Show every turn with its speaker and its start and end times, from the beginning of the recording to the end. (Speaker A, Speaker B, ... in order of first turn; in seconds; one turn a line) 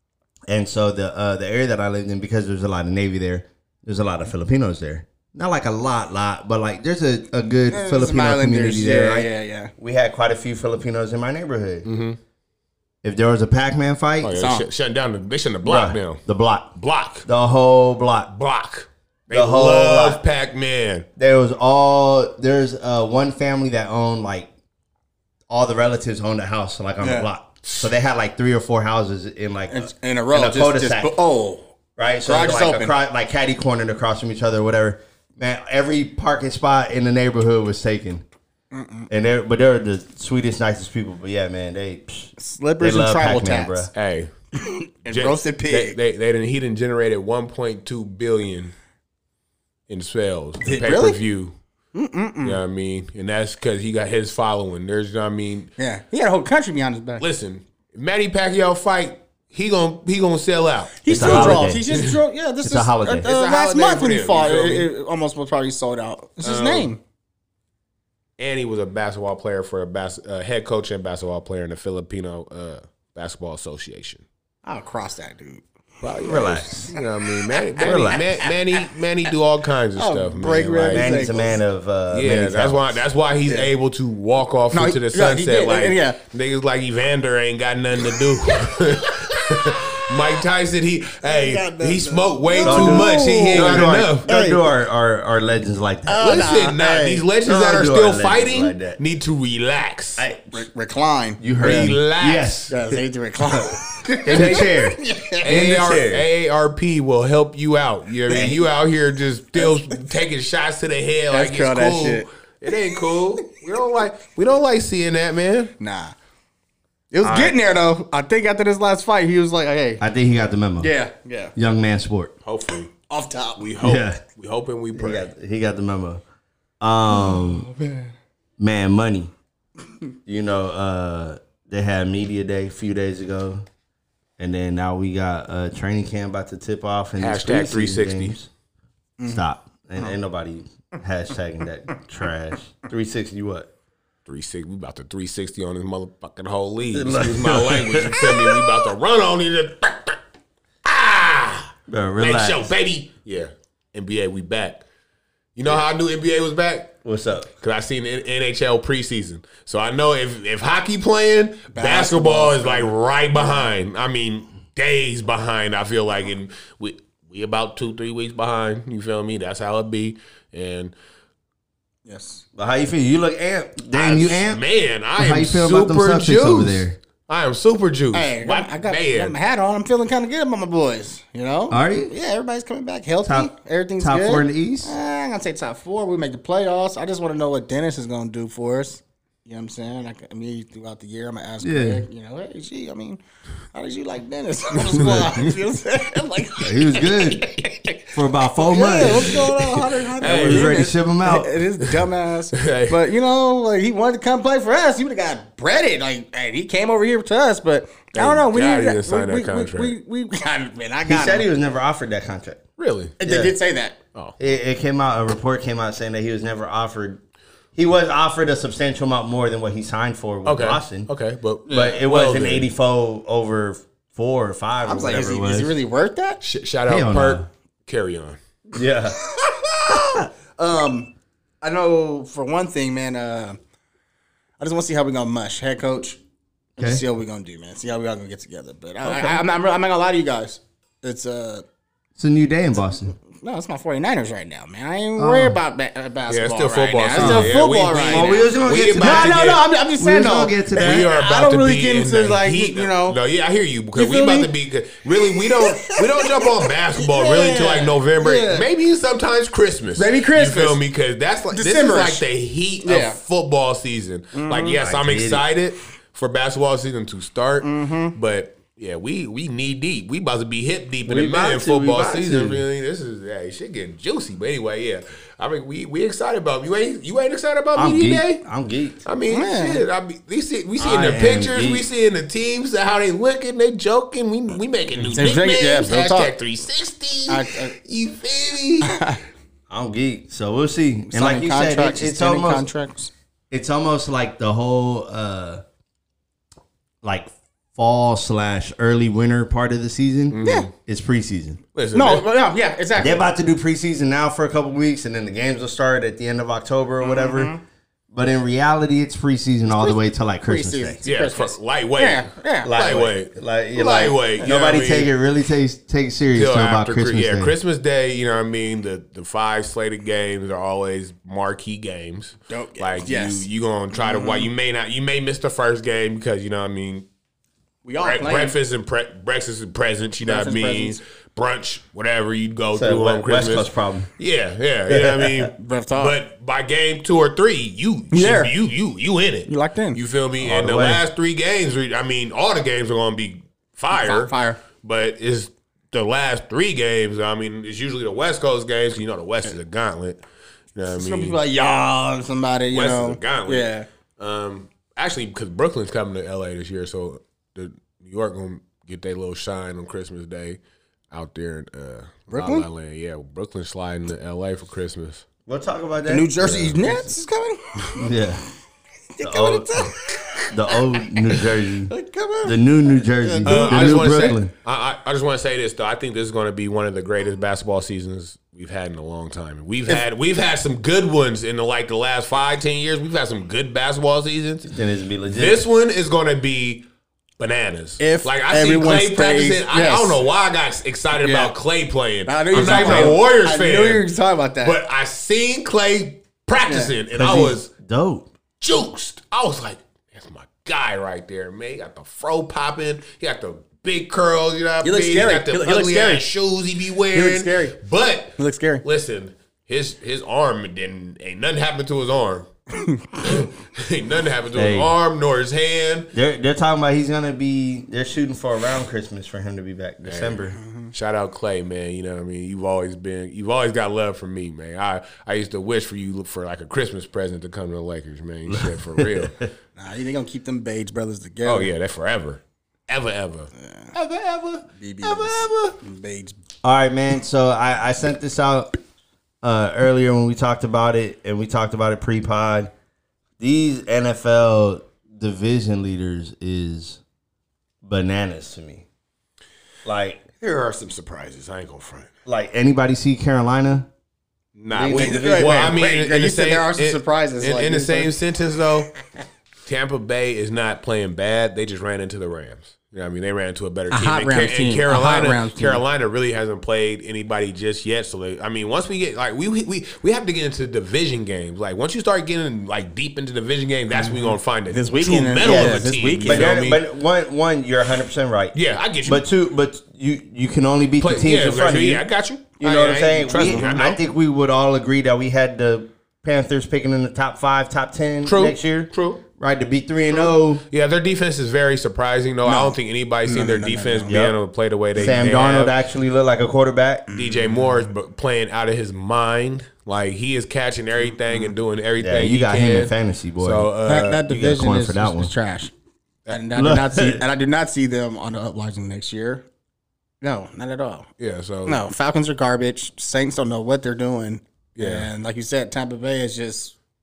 Speaker A: 0.5-11.8
Speaker B: 7.7-9.7
Speaker C: 11.8-12.2
Speaker A: 13.0-14.4
Speaker C: 14.2-16.2
Speaker B: 14.3-14.6
Speaker A: 15.6-16.7
Speaker C: 16.8-17.3
Speaker A: 17.2-18.3
Speaker C: 18.3-21.1
Speaker A: 19.3-20.2
Speaker A: 21.2-24.5
Speaker A: 25.5-31.1
Speaker B: 27.0-27.3
Speaker C: 27.6-27.9
Speaker B: 29.7-31.7
Speaker A: 32.0-38.2
Speaker B: 32.2-32.9
Speaker B: 38.7-39.1
Speaker A: 39.1-43.9
Speaker B: 42.4-43.9
Speaker C: 43.9-44.3
Speaker B: 44.5-46.0
Speaker C: 45.1-48.7
Speaker C: 49.9-51.5
Speaker B: 50.6-51.2
Speaker B: 51.9-52.6
Speaker C: 52.4-55.7
Speaker B: 55.8-57.2
Speaker C: 57.2-62.2
Speaker B: 61.0-67.0
Speaker A: 61.1-61.9
Speaker A: 62.6-63.3
Speaker C: 63.2-64.9
Speaker C: 66.4-66.9
Speaker C: 68.4-74.2
Speaker B: 74.6-75.6
Speaker C: 76.0-81.1
Speaker A: 76.2-76.9
Speaker B: 77.6-78.8
Speaker A: 77.8-78.3
Speaker B: 80.0-81.6
Speaker A: 80.9-83.0
Speaker C: 82.1-94.3
Speaker B: 83.5-83.7
Speaker B: 84.7-86.2
Speaker B: 88.7-89.5
Speaker B: 91.2-94.7
Speaker A: 92.6-96.5
Speaker B: 96.1-97.2
Speaker C: 96.2-100.3
Speaker A: 97.5-99.0
Speaker A: 100.2-100.7
Speaker B: 100.5-102.0
Speaker A: 101.4-102.8
Speaker C: 101.6-102.7
Speaker B: 102.7-105.5
Speaker A: 104.2-106.2
Speaker C: 104.3-104.7
Speaker C: 105.4-115.7
Speaker A: 108.3-108.6
Speaker B: 109.5-110.1
Speaker B: 111.3-112.8
Speaker B: 115.8-116.1
Speaker B: 117.1-120.0
Speaker A: 117.2-117.5
Speaker A: 120.0-120.9
Speaker B: 120.8-121.5
Speaker A: 121.5-122.3
Speaker C: 122.4-122.9
Speaker B: 123.1-123.7
Speaker C: 123.5-125.3
Speaker A: 123.8-124.2
Speaker A: 124.9-126.2
Speaker A: 126.8-127.7
Speaker B: 127.1-128.1
Speaker A: 128.6-129.3
Speaker A: 130.2-133.6
Speaker A: 134.4-138.5
Speaker C: 137.2-138.3
Speaker B: 139.2-139.4
Speaker A: 139.2-143.7
Speaker C: 144.3-150.2
Speaker A: 146.9-148.8
Speaker C: 150.8-154.8
Speaker A: 151.9-152.7
Speaker C: 155.5-156.9
Speaker A: 157.0-157.5
Speaker C: 157.6-170.9
Speaker B: 161.7-163.7
Speaker B: 172.1-172.4
Speaker A: 172.6-174.6
Speaker C: 173.9-179.3
Speaker A: 175.2-177.0
Speaker B: 178.1-193.2
Speaker A: 181.7-182.1
Speaker A: 183.2-184.9
Speaker A: 191.6-192.0
Speaker B: 193.7-211.5
Speaker C: 194.9-195.5
Speaker A: 196.6-197.5
Speaker A: 198.1-199.5
Speaker C: 199.0-200.8
Speaker A: 200.2-201.6
Speaker C: 201.8-203.0
Speaker C: 208.1-209.9
Speaker A: 211.1-212.6
Speaker C: 212.8-213.1
Speaker B: 213.2-214.0
Speaker A: 213.2-213.5
Speaker A: 214.4-217.2
Speaker A: 217.7-221.1
Speaker C: 220.4-222.7
Speaker B: 221.7-222.0
Speaker A: 221.7-225.8
Speaker B: 224.8-226.4
Speaker C: 226.4-228.4
Speaker A: 226.9-227.5
Speaker A: 228.7-229.2
Speaker B: 229.2-231.1
Speaker A: 229.9-230.3
Speaker B: 231.6-233.6
Speaker B: 234.6-236.2
Speaker B: 236.8-241.6
Speaker A: 236.8-237.0
Speaker A: 239.0-239.4
Speaker A: 242.2-243.1
Speaker B: 243.4-253.2
Speaker A: 245.2-245.6
Speaker C: 246.3-249.6
Speaker A: 247.2-247.6
Speaker A: 248.1-251.1
Speaker C: 250.8-278.4
Speaker B: 253.9-254.5
Speaker B: 255.2-258.7
Speaker B: 260.0-260.8
Speaker B: 261.5-262.2
Speaker B: 262.8-263.2
Speaker B: 264.3-264.8
Speaker A: 264.8-265.4
Speaker B: 267.6-268.1
Speaker A: 271.1-272.6
Speaker A: 277.8-279.0
Speaker C: 279.0-288.9
Speaker B: 279.3-279.8
Speaker A: 280.8-281.9
Speaker B: 284.9-286.3
Speaker B: 287.3-287.8
Speaker B: 288.8-289.2
Speaker A: 289.7-292.7
Speaker B: 291.1-293.1
Speaker A: 293.5-295.6
Speaker A: 297.0-301.6
Speaker C: 300.3-300.7
Speaker C: 301.7-302.2
Speaker B: 301.9-303.2
Speaker A: 302.9-307.5
Speaker B: 307.0-307.6
Speaker A: 308.1-311.0
Speaker B: 309.7-312.7
Speaker C: 311.0-315.1
Speaker A: 312.6-317.5
Speaker C: 316.3-327.1
Speaker B: 322.5-324.5
Speaker B: 327.8-328.5
Speaker C: 328.0-350.2
Speaker B: 330.2-331.0
Speaker A: 332.7-334.1
Speaker A: 334.9-335.5
Speaker B: 335.6-336.1
Speaker B: 338.1-338.5
Speaker B: 339.5-340.0
Speaker A: 340.4-341.0
Speaker B: 343.9-344.6
Speaker C: 350.7-351.4
Speaker B: 350.9-353.9
Speaker C: 352.7-360.6
Speaker C: 361.1-365.2
Speaker B: 362.3-362.7
Speaker A: 365.4-366.9
Speaker B: 366.1-367.9
Speaker A: 368.0-368.4
Speaker B: 369.1-374.4
Speaker A: 369.2-369.9
Speaker A: 370.5-374.5
Speaker C: 373.4-384.7
Speaker A: 384.7-385.6
Speaker C: 385.3-386.8
Speaker C: 387.4-394.0
Speaker B: 388.0-390.2
Speaker B: 391.2-391.5
Speaker B: 392.3-394.8
Speaker A: 392.5-393.2
Speaker C: 394.6-397.7
Speaker B: 396.7-396.9
Speaker A: 397.1-398.3
Speaker C: 398.6-412.5
Speaker B: 404.8-406.3
Speaker B: 407.1-407.8
Speaker B: 408.4-408.8
Speaker B: 412.7-413.1
Speaker C: 413.2-416.1
Speaker A: 414.5-414.9
Speaker A: 416.1-420.6
Speaker C: 420.0-429.4
Speaker B: 420.5-420.9
Speaker A: 428.5-429.5
Speaker B: 429.8-431.7
Speaker C: 431.4-435.8
Speaker B: 433.6-433.9
Speaker B: 434.8-436.4
Speaker A: 436.6-438.7
Speaker A: 439.4-442.7
Speaker A: 443.4-447.0
Speaker A: 447.8-448.9
Speaker A: 449.8-450.2
Speaker C: 450.4-452.1
Speaker A: 452.2-453.9
Speaker C: 454.6-458.9
Speaker A: 454.7-455.8
Speaker B: 454.9-458.1
Speaker C: 459.6-476.8
Speaker B: 463.9-465.8
Speaker B: 473.9-476.6
Speaker A: 475.4-482.0
Speaker C: 478.5-479.2
Speaker C: 481.0-484.0
Speaker A: 482.6-490.6
Speaker B: 483.2-483.8
Speaker C: 488.2-489.2
Speaker C: 490.1-495.8
Speaker B: 492.4-494.1
Speaker A: 494.1-494.3
Speaker A: 494.9-497.1
Speaker B: 497.1-497.6
Speaker C: 497.1-504.2
Speaker A: 502.0-503.7
Speaker B: 503.9-505.7
Speaker A: 504.2-505.3
Speaker B: 506.3-509.4
Speaker A: 506.5-507.2
Speaker B: 510.2-511.1
Speaker C: 511.2-511.8
Speaker B: 511.6-516.7
Speaker C: 514.8-515.1